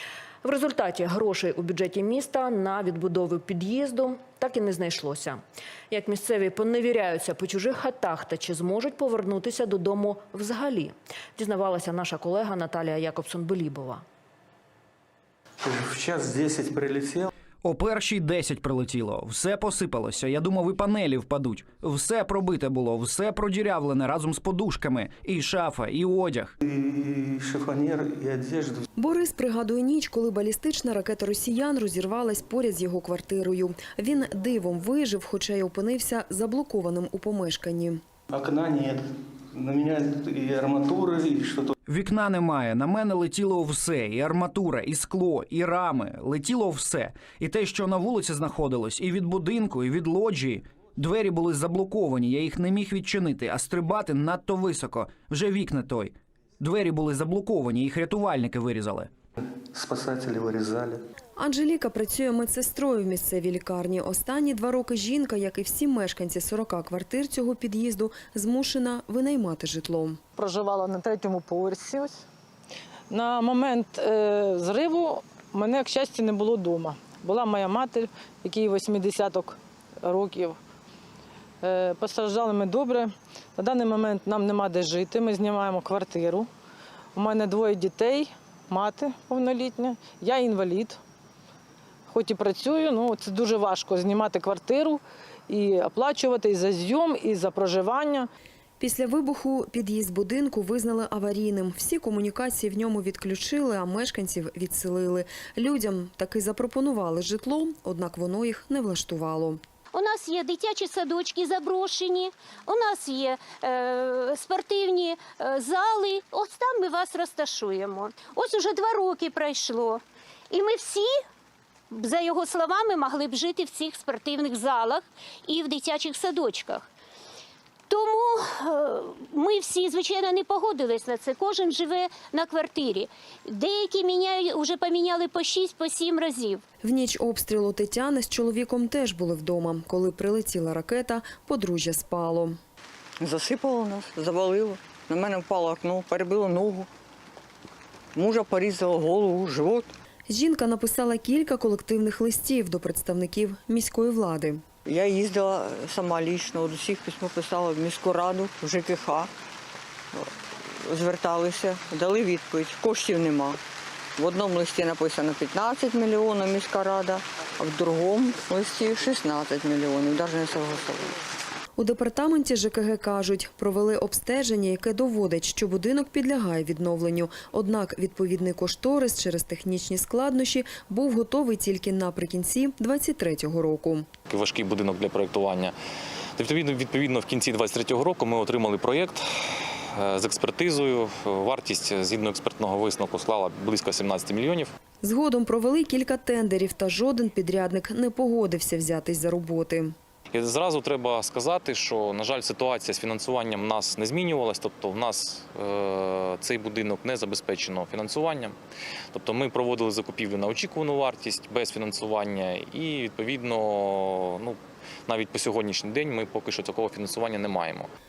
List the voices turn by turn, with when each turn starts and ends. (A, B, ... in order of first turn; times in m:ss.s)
0:00.4-0:14.0 A
0:15.6-0:17.3 B
0:17.6-0:26.5 C
0:26.6-0:28.8 B
0:29.0-0:38.0 D
0:38.3-0:41.7 B
0:41.9-0:59.1 C
0:59.7-1:01.0 B
1:01.4-1:10.2 D
1:10.4-1:12.2 E
1:13.1-1:20.6 E
1:21.6-1:26.5 E
1:27.2-1:31.0 E
1:32.1-1:38.3 E
1:38.8-1:49.6 D
1:49.9-2:01.1 F
2:01.9-2:06.9 F
2:07.9-2:16.6 F
2:16.8-2:22.6 D
2:23.2-2:26.9 G
2:28.1-2:29.9 G
2:30.3-2:34.6 D
2:34.8-2:39.3 G
2:40.8-2:43.6 G
2:44.2-2:51.1 G
2:51.8-3:04.1 D
3:04.3-3:05.7 H
3:06.4-3:09.2 H
3:10.0-3:14.7 H
3:15.0-3:19.9 D
3:20.3-3:28.5 H
3:29.1-3:37.9 H